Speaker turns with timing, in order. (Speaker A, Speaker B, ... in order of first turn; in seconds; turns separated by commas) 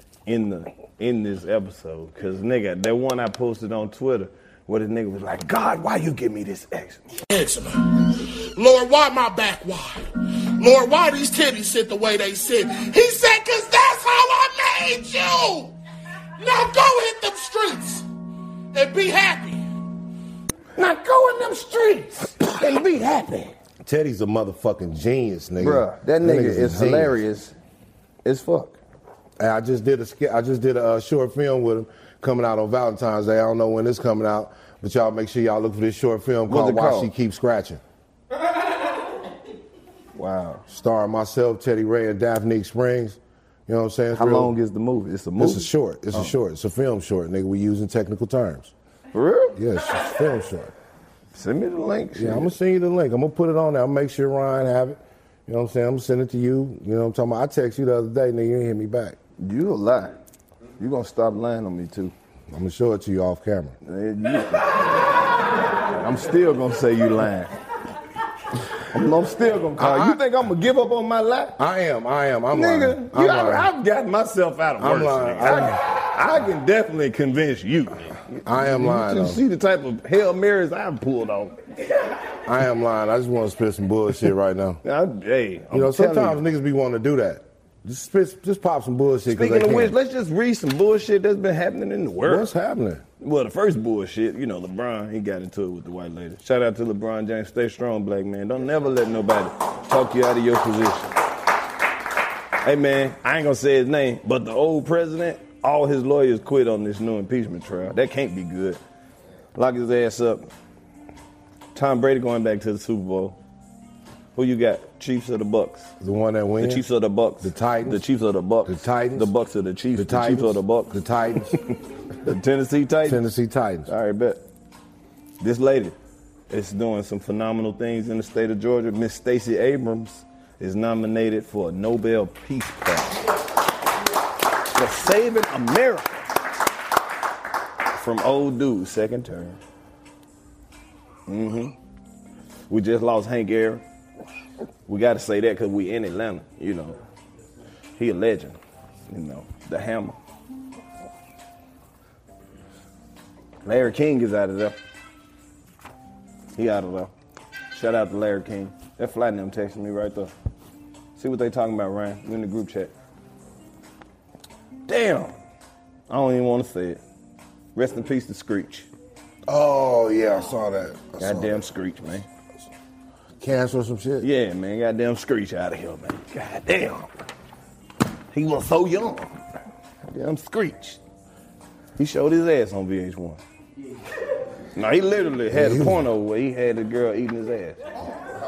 Speaker A: 0.3-7.0, Speaker B: 7.3-15.8, Speaker B: 16.4-18.1, Speaker B: 18.7-19.7, Speaker A: 20.8-23.5, Speaker C: 23.8-27.2, Speaker A: 25.6-27.5, Speaker A: 28.2-28.8, Speaker C: 29.4-37.8, Speaker A: 36.5-37.1, Speaker A: 40.1-40.6, Speaker C: 40.7-44.5, Speaker A: 44.1-46.3, Speaker C: 45.4-48.7, Speaker A: 49.1-49.6, Speaker C: 49.6-50.7, Speaker A: 51.3-52.5, Speaker C: 52.1-59.2, Speaker A: 59.4-60.2, Speaker A: 60.8-62.1, Speaker C: 62.5-63.8, Speaker A: 63.9-64.8, Speaker A: 66.0-67.6, Speaker A: 68.8-71.6, Speaker C: 69.8-70.2, Speaker C: 71.6-73.7, Speaker A: 72.5-81.6, Speaker C: 74.8-75.8, Speaker C: 78.4-79.4, Speaker C: 82.5-84.8, Speaker A: 84.8-86.4, Speaker C: 85.7-90.0, Speaker A: 89.3-92.5, Speaker C: 92.2-93.0, Speaker A: 93.2-101.2, Speaker A: 102.6-108.8, Speaker A: 109.5-110.5, Speaker A: 111.7-113.4, Speaker A: 114.3-115.9, Speaker C: 116.0-116.8, Speaker A: 116.6-120.9, Speaker C: 117.4-118.0, Speaker C: 118.7-119.3, Speaker C: 120.0-121.6, Speaker A: 122.2-123.2, Speaker C: 123.0-123.9, Speaker A: 123.9-124.4, Speaker A: 125.4-126.0, Speaker A: 126.5-133.2, Speaker A: 134.7-136.3, Speaker A: 137.9-139.6, Speaker A: 141.3-141.8, Speaker A: 142.7-143.8, Speaker A: 144.9-147.0, Speaker A: 148.0-148.6, Speaker A: 149.1-150.2, Speaker A: 153.7-154.8, Speaker A: 156.6-157.1, Speaker A: 157.7-160.3, Speaker A: 161.2-162.9, Speaker A: 164.9-165.3, Speaker A: 166.1-167.0, Speaker A: 167.8-168.9, Speaker C: 169.5-171.7, Speaker A: 171.2-172.3, Speaker C: 173.4-174.3, Speaker A: 174.2-177.1, Speaker A: 178.3-179.3, Speaker A: 180.0-181.0, Speaker A: 182.0-183.4, Speaker A: 184.8-187.8, Speaker C: 185.5-186.0